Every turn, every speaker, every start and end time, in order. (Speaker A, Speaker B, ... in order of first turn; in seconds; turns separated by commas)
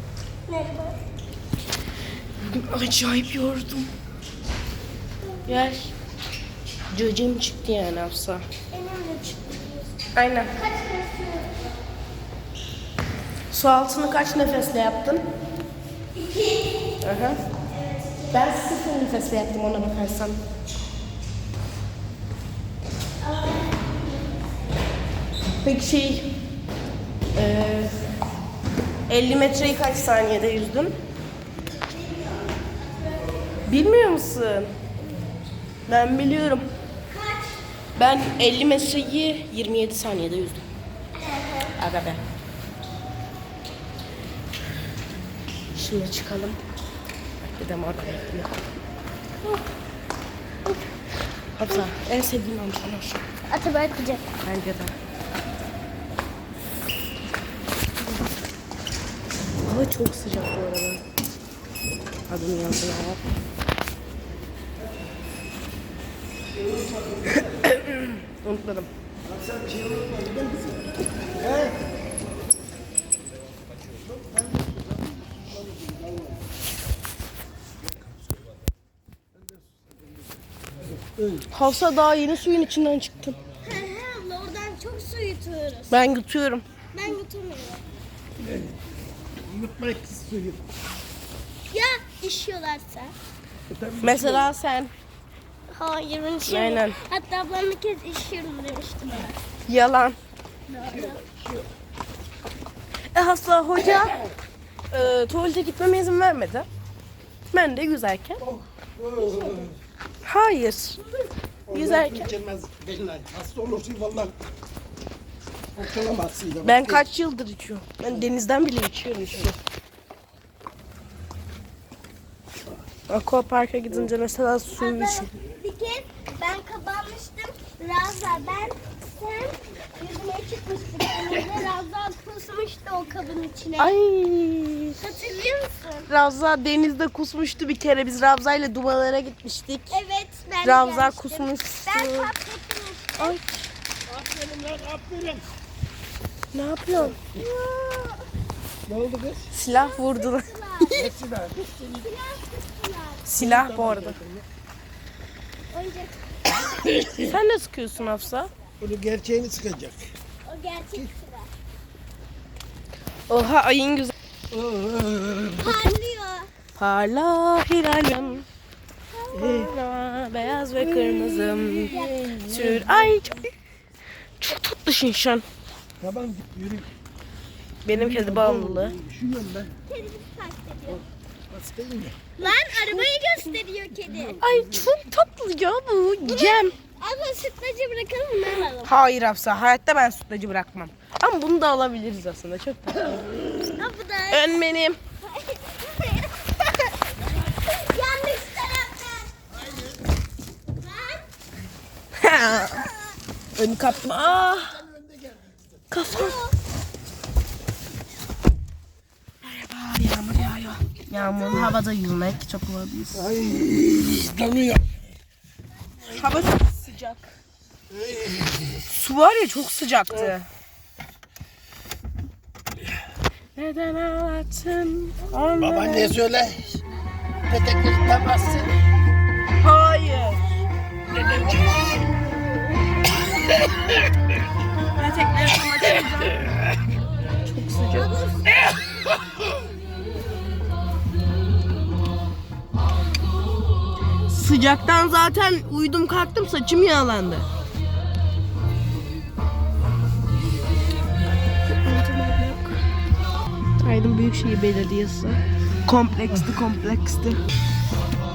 Speaker A: 0.5-1.0, Speaker B: 2.4-3.9, Speaker B: 5.5-5.9, Speaker B: 6.9-8.4, Speaker A: 8.7-9.9, Speaker B: 10.1-10.5, Speaker A: 10.6-11.6, Speaker B: 13.5-15.2, Speaker A: 16.2-16.7, Speaker B: 17.0-17.4, Speaker B: 18.3-20.4, Speaker A: 23.2-24.0, Speaker B: 25.6-26.4, Speaker B: 27.3-28.1, Speaker B: 29.1-30.9, Speaker B: 33.7-34.7, Speaker B: 35.9-36.7, Speaker B: 38.0-40.6, Speaker A: 41.3-41.7, Speaker B: 41.8-42.2, Speaker B: 45.7-46.6, Speaker B: 47.4-48.5, Speaker B: 51.5-53.2, Speaker A: 53.5-54.2, Speaker B: 54.4-54.9, Speaker B: 59.6-61.0, Speaker B: 62.3-63.2, Speaker B: 67.5-68.9, Speaker C: 69.3-71.8, Speaker B: 81.5-83.4, Speaker A: 83.6-85.9, Speaker B: 85.9-86.7, Speaker A: 86.9-87.8, Speaker C: 89.4-90.6, Speaker A: 91.7-93.1, Speaker C: 93.7-94.5, Speaker B: 94.0-94.9, Speaker A: 95.7-99.4, Speaker B: 96.4-97.0, Speaker B: 99.7-100.2, Speaker A: 100.7-101.2, Speaker C: 101.0-101.7, Speaker B: 103.1-104.2, Speaker B: 104.9-106.7, Speaker B: 107.5-108.4, Speaker C: 108.4-109.8, Speaker B: 110.2-111.0, Speaker C: 111.7-114.4, Speaker B: 111.7-112.3, Speaker C: 115.8-117.0, Speaker B: 116.6-119.6, Speaker B: 123.1-125.3, Speaker A: 124.7-133.9, Speaker B: 133.8-135.1, Speaker A: 135.0-136.1, Speaker B: 136.1-140.0, Speaker A: 139.9-143.4, Speaker B: 140.6-142.3, Speaker B: 143.2-143.7, Speaker C: 144.1-145.5, Speaker B: 146.5-147.2, Speaker A: 147.4-148.2, Speaker C: 148.9-149.5, Speaker B: 149.5-150.5, Speaker A: 149.7-151.1, Speaker C: 150.9-152.1, Speaker A: 152.0-153.3, Speaker B: 153.3-154.2, Speaker C: 153.4-154.4, Speaker A: 155.7-156.7, Speaker B: 157.2-158.5, Speaker C: 158.8-160.1, Speaker A: 160.4-161.5, Speaker B: 163.3-164.1, Speaker C: 164.5-165.8, Speaker A: 165.6-166.5, Speaker B: 166.8-168.5, Speaker A: 169.1-169.7, Speaker B: 169.3-173.5, Speaker C: 170.8-173.0, Speaker A: 171.9-172.2, Speaker B: 174.4-175.4, Speaker C: 176.0-176.9, Speaker B: 177.8-179.0, Speaker C: 177.9-179.8, Speaker A: 179.9-181.1, Speaker C: 181.5-182.2, Speaker A: 182.4-184.4, Speaker B: 182.4-183.1, Speaker B: 184.4-186.8, Speaker A: 186.3-188.9, Speaker B: 188.8-193.4, Speaker A: 193.8-194.7, Speaker B: 194.3-195.0, Speaker A: 195.2-196.4, Speaker A: 197.6-199.3, Speaker A: 200.8-201.2, Speaker B: 202.2-202.9, Speaker A: 202.5-203.2, Speaker B: 203.6-204.8, Speaker C: 204.1-205.7, Speaker B: 205.9-206.4, Speaker A: 206.1-206.6, Speaker B: 209.4-213.3, Speaker C: 213.2-215.0, Speaker B: 216.1-217.3, Speaker C: 217.9-218.8, Speaker B: 218.8-220.5, Speaker B: 223.6-226.2, Speaker C: 225.6-226.8, Speaker C: 227.5-228.8, Speaker B: 229.6-230.5, Speaker C: 231.1-231.8, Speaker B: 235.0-236.5, Speaker B: 237.5-238.2, Speaker A: 238.0-238.5, Speaker B: 244.3-247.5, Speaker B: 251.7-252.8, Speaker B: 253.8-257.4, Speaker C: 256.3-256.6